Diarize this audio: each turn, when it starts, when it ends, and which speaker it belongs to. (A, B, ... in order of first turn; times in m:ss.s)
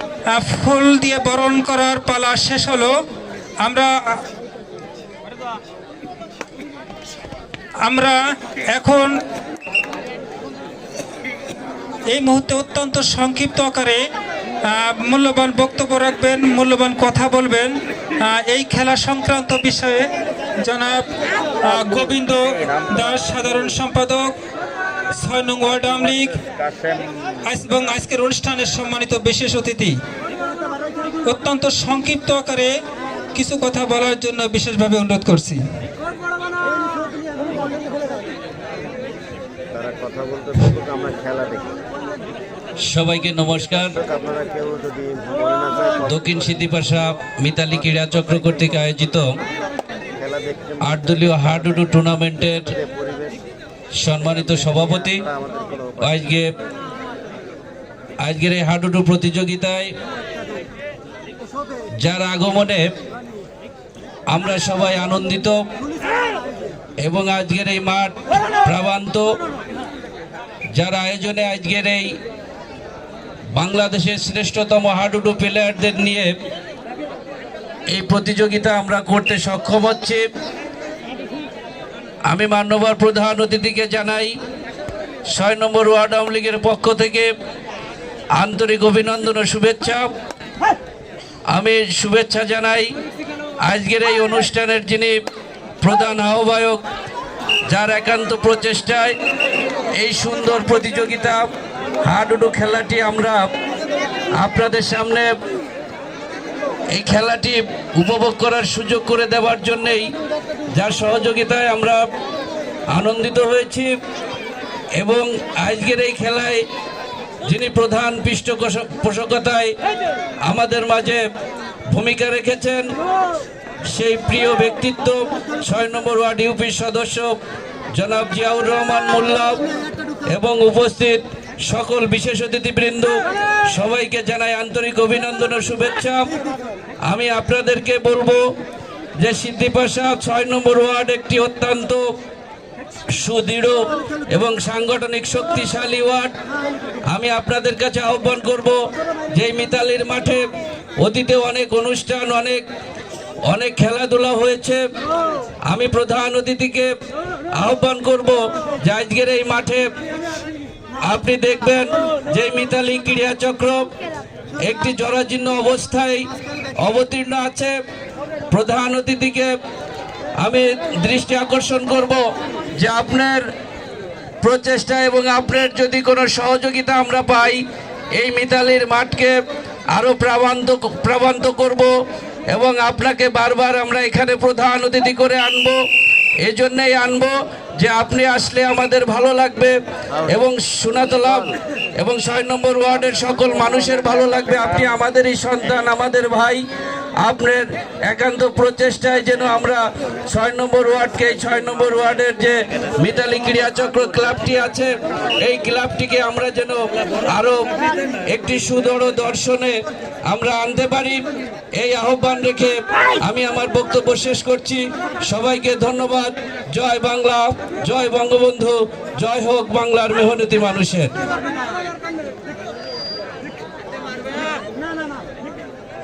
0:00.3-0:03.0 A
0:03.6-0:04.2 A
0:07.8-0:09.2 A
0:12.1-0:14.1 A
0:14.6-0:24.4 A
0:21.7-0:23.7 B
0:25.1-0:26.4 A
0:25.8-0:27.6 B
0:27.4-0:30.0 A
0:31.2-0:32.8 A
0:33.3-0:35.6 A
0:39.7-0:41.8 B
0:42.8-0:43.9 C
0:43.4-0:49.1 B
0:46.0-0:49.3 C
0:50.2-0:53.4 B
0:50.8-0:52.7 C
0:54.0-0:55.2 C
0:54.2-0:56.3 B
0:56.0-0:56.5 C
0:58.2-0:59.9 C
1:02.0-1:02.8 C
1:04.3-1:05.6 C
1:07.0-1:09.2 C
1:10.8-1:12.1 C
1:13.5-1:16.3 C
1:17.9-1:20.2 C
1:22.3-1:24.3 C
1:25.3-1:27.3 C
1:28.4-1:30.1 C
1:31.5-1:32.9 C
1:33.6-1:35.2 C
1:35.8-1:36.8 C
1:37.7-1:39.2 C
1:40.0-1:41.5 C
1:42.0-1:43.5 C
1:44.4-1:45.2 C
1:46.9-1:50.1 C
1:50.7-1:52.0 C
1:52.9-1:53.9 C
1:55.0-1:56.6 C
1:57.4-1:59.7 C
2:00.4-2:01.2 C
2:01.9-2:02.8 C
2:03.9-2:07.4 C
2:07.9-2:09.6 C
2:10.3-2:16.3 C
2:17.1-2:18.4 C
2:19.2-2:22.0 C
2:23.2-2:26.3 C
2:27.1-2:28.8 C
2:29.3-2:30.4 C
2:31.0-2:32.6 C
2:33.5-2:34.8 C
2:35.7-2:36.9 C
2:37.6-2:39.8 C
2:41.0-2:43.9 C
2:44.6-2:47.7 C
2:48.5-2:49.5 C
2:50.4-2:52.2 C
2:52.8-2:53.4 C
2:54.4-2:57.6 C
2:58.2-2:59.3 C
2:59.9-3:01.9 C
3:02.5-3:05.8 C
3:06.4-3:16.6 C
3:10.1-3:10.4 B
3:17.2-3:27.7 C
3:22.8-3:23.9 B
3:28.2-3:31.2 C
3:31.8-3:41.1 C